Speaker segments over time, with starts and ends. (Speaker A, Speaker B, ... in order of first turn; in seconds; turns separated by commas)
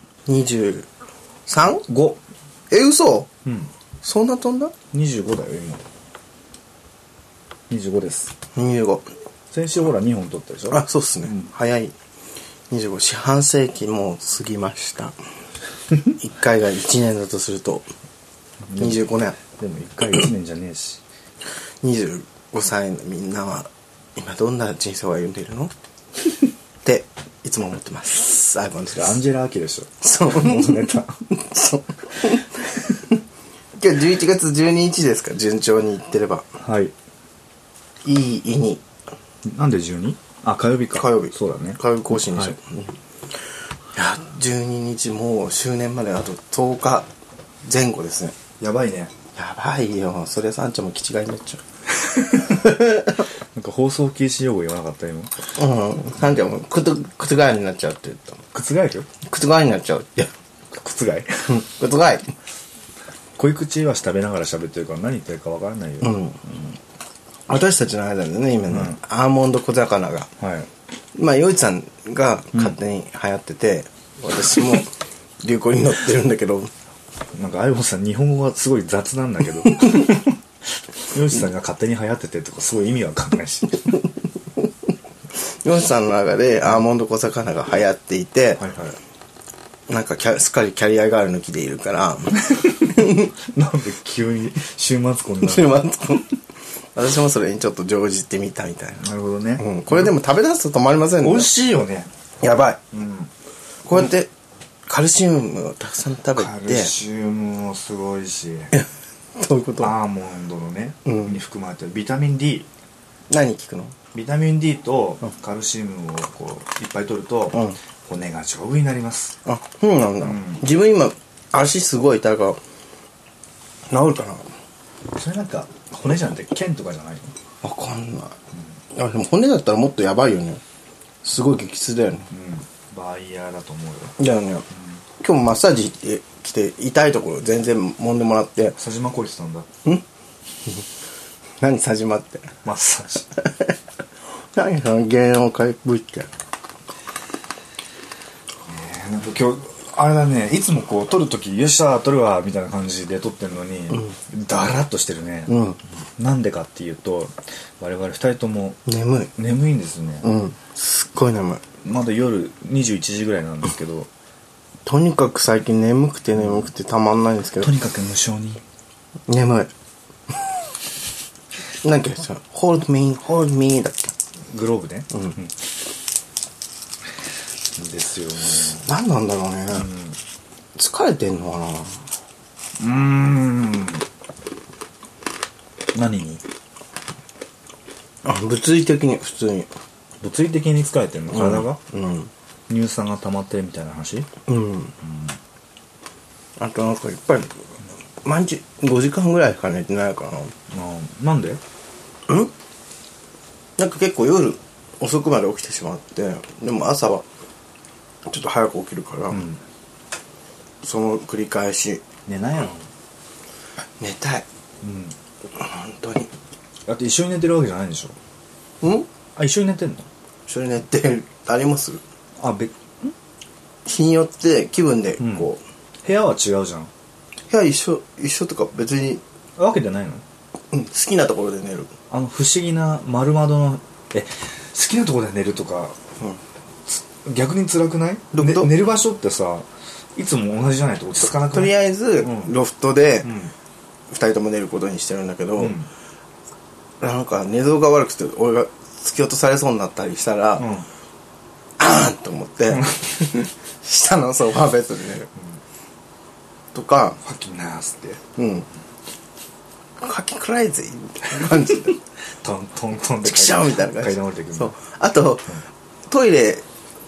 Speaker A: 0.3-0.9, Speaker A: 1.5-1.9, Speaker B: 1.9-2.2, Speaker A: 2.7-3.3, Speaker B: 3.4-3.7, Speaker A: 4.0-4.7, Speaker B: 4.9-5.8, Speaker B: 7.7-8.3, Speaker A: 8.5-9.1, Speaker B: 9.5-11.5, Speaker A: 10.7-11.9, Speaker A: 12.7-15.2, Speaker A: 16.1-17.9, Speaker B: 18.7-21.0, Speaker A: 18.8-19.4, Speaker A: 21.8-25.7, Speaker A: 26.8-29.2, Speaker B: 28.9-31.2, Speaker A: 30.0-33.2, Speaker A: 33.8-36.5, Speaker B: 36.6-36.9, Speaker A: 38.0-38.8, Speaker B: 39.5-42.5, Speaker A: 40.9-42.9, Speaker A: 43.9-47.1, Speaker A: 47.6-48.4, Speaker B: 48.6-49.1, Speaker A: 49.3-53.2, Speaker B: 52.1-52.7, Speaker B: 53.5-55.3, Speaker A: 55.5-58.4, Speaker B: 58.5-59.1, Speaker A: 59.2-60.3, Speaker B: 60.7-61.6, Speaker A: 61.5-62.3, Speaker B: 63.4-66.8, Speaker A: 66.0-66.4, Speaker A: 67.5-70.3, Speaker B: 68.7-69.0, Speaker B: 70.4-70.7, Speaker A: 71.1-74.9, Speaker A: 75.4-76.7, Speaker B: 77.3-80.4, Speaker B: 81.1-84.0, Speaker A: 85.4-88.6, Speaker B: 88.6-89.0, Speaker A: 89.9-93.3, Speaker B: 92.4-95.8, Speaker A: 95.4-96.4, Speaker A: 96.9-101.8, Speaker B: 99.0-100.1, Speaker B: 101.2-102.1, Speaker A: 102.4-102.8, Speaker B: 102.9-103.3, Speaker A: 103.8-104.3, Speaker A: 104.9-106.9, Speaker B: 106.3-108.7, Speaker A: 108.7-109.9, Speaker B: 109.8-112.7, Speaker A: 111.0-111.4, Speaker A: 113.3-113.9, Speaker B: 114.1-119.3, Speaker A: 119.4-122.6, Speaker B: 120.2-120.6, Speaker A: 123.9-124.5, Speaker B: 125.1-127.3, Speaker A: 127.6-128.3, Speaker A: 128.9-130.6, Speaker A: 131.2-132.2, Speaker B: 132.3-134.1, Speaker A: 134.2-134.7, Speaker A: 135.2-138.8, Speaker B: 138.8-139.7, Speaker A: 141.6-142.5, Speaker B: 142.6-143.3, Speaker A: 143.4-143.7, Speaker A: 144.5-146.3, Speaker B: 148.7-155.5, Speaker A: 155.5-155.8, Speaker B: 156.2-158.8, Speaker A: 158.8-159.3, Speaker B: 159.3-160.3, Speaker A: 160.2-161.6, Speaker B: 161.8-164.1, Speaker A: 164.8-167.7, Speaker B: 167.6-168.6, Speaker A: 169.3-169.7, Speaker A: 171.8-174.1, Speaker B: 174.5-175.5, Speaker B: 177.8-178.9, Speaker A: 178.7-179.9, Speaker B: 179.7-180.2, Speaker A: 180.8-182.0, Speaker B: 182.8-184.0, Speaker B: 185.9-186.4, Speaker A: 188.2-189.7, Speaker B: 190.2-191.8, Speaker A: 191.3-192.3, Speaker B: 192.7-194.3, Speaker A: 194.5-194.9, Speaker B: 195.0-195.3, Speaker A: 196.6-197.5, Speaker A: 198.2-200.5, Speaker B: 200.7-201.6, Speaker A: 203.8-207.2, Speaker A: 208.3-209.4, Speaker B: 209.3-209.6, Speaker A: 210.8-212.0, Speaker B: 212.2-212.8, Speaker A: 214.0-214.4, Speaker B: 214.8-215.2, Speaker A: 215.5-216.3, Speaker B: 216.9-218.2, Speaker A: 218.8-219.1, Speaker B: 219.3-220.1, Speaker A: 220.5-222.0, Speaker B: 222.4-223.1, Speaker A: 223.8-225.6, Speaker B: 225.2-225.5, Speaker B: 226.0-226.9, Speaker A: 227.5-229.2, Speaker B: 229.6-230.2, Speaker A: 230.7-231.9, Speaker B: 232.1-236.0, Speaker B: 236.9-242.5, Speaker A: 238.3-238.7, Speaker A: 241.2-243.4, Speaker B: 243.2-243.5, Speaker A: 244.1-245.8, Speaker B: 245.6-245.9, Speaker A: 247.0-250.7, Speaker B: 250.6-250.8, Speaker A: 251.8-255.3, Speaker A: 256.7-257.2, Speaker B: 257.2-258.2, Speaker A: 258.4-258.7, Speaker A: 260.0-262.0, Speaker B: 262.4-264.7, Speaker A: 263.2-266.6